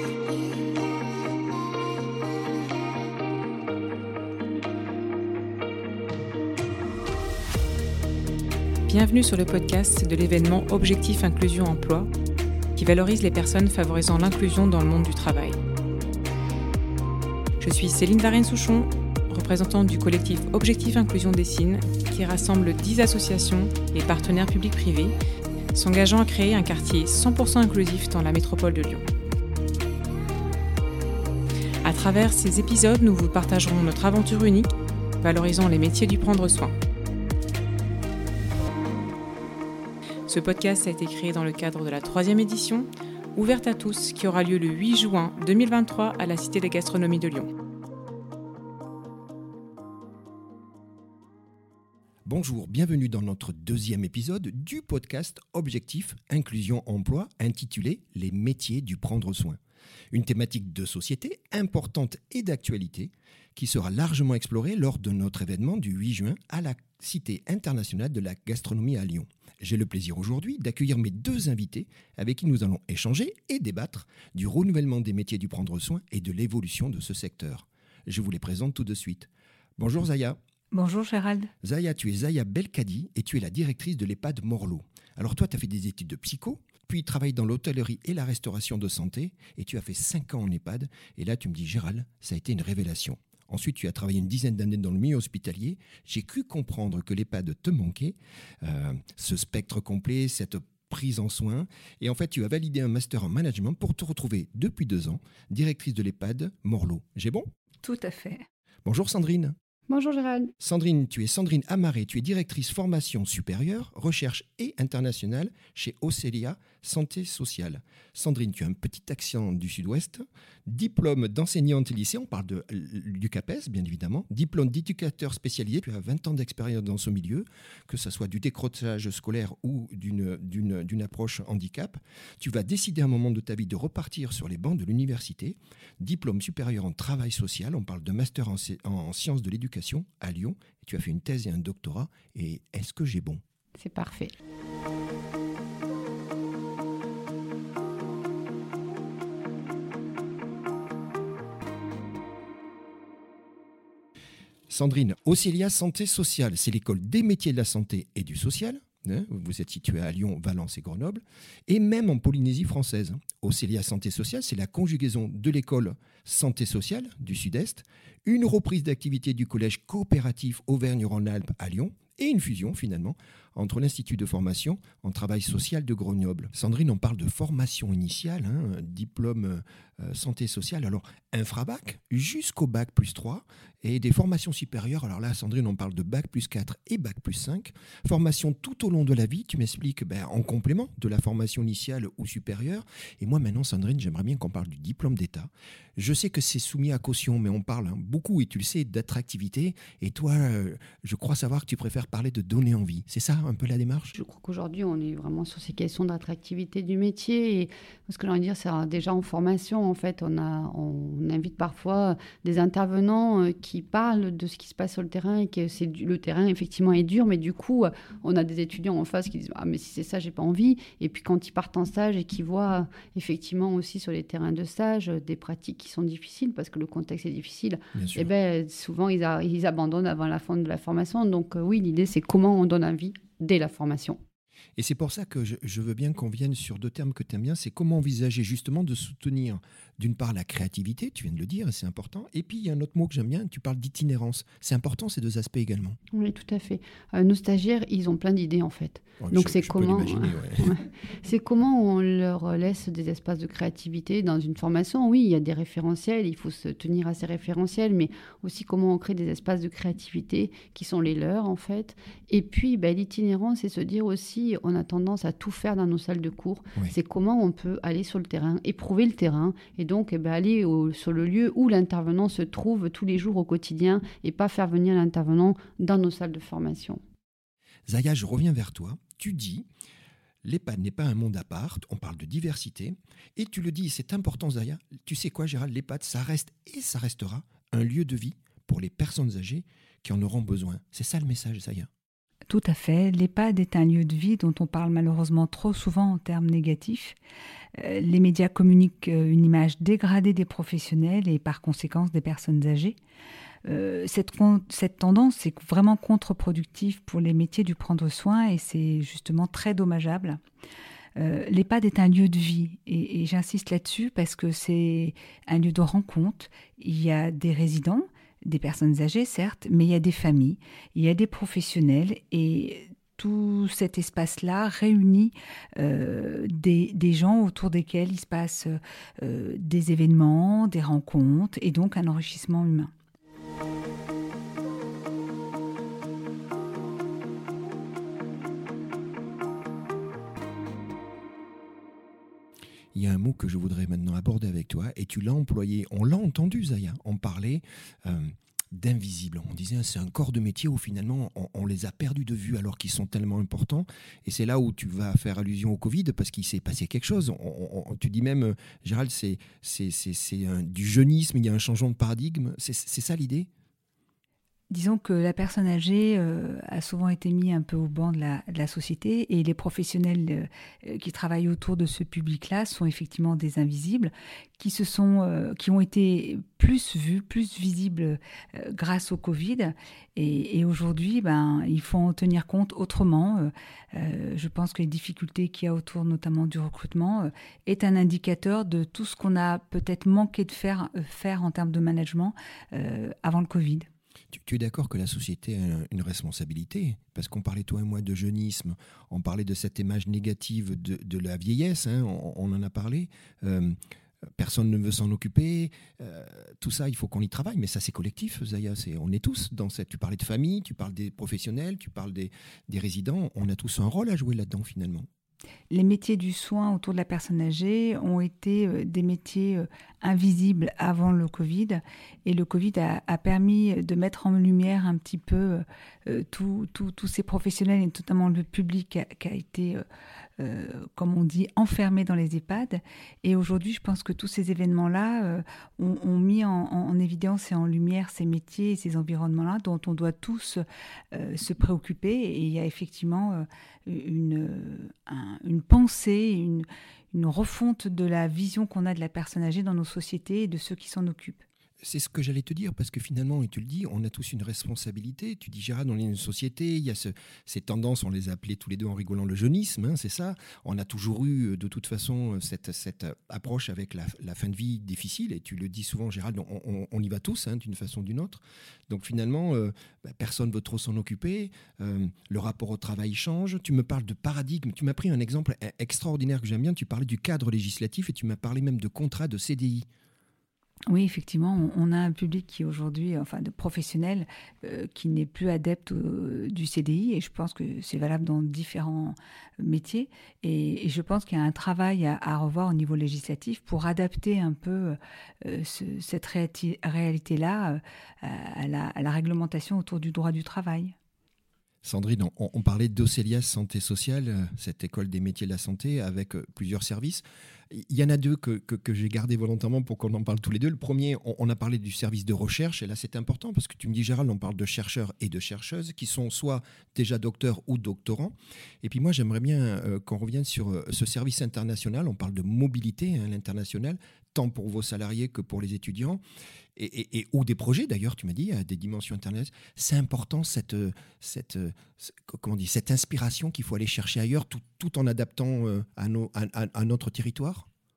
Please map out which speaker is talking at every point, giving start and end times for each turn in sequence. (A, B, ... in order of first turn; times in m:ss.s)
0:08.9-0:12.1 A
0:12.8-0:15.6 A
0:17.6-0:25.2 A
0:25.7-0:29.1 A
0:31.8-0:36.7 A
0:40.3-0:47.5 A
0:52.3-0:59.6 B
1:00.1-1:20.4 B
1:20.7-1:21.5 C
1:21.6-1:47.5 B
1:47.8-1:48.5 C
1:48.8-1:49.6 B
1:49.9-1:50.5 D
1:50.6-2:23.4 B
2:23.8-2:24.3 D
2:34.7-3:24.2 B
3:24.2-3:54.2 D
3:47.9-3:48.3 B
3:54.8-4:06.0 B
4:06.1-4:37.0 D
4:09.2-4:10.7 B
4:37.9-4:39.7 B
4:40.4-4:51.9 B
4:52.5-4:57.2 C
4:57.8-5:03.0 C
5:03.6-5:10.4 C
5:11.2-5:32.9 C
5:42.9-6:03.5 B
6:04.7-6:33.9 C
6:34.3-6:43.8 B
6:44.4-6:55.1 B
6:55.7-7:09.8 C
7:10.4-7:31.4 C
7:31.8-7:59.9 B
8:00.9-8:20.9 C
8:21.8-8:46.2 B
8:46.8-8:57.7 B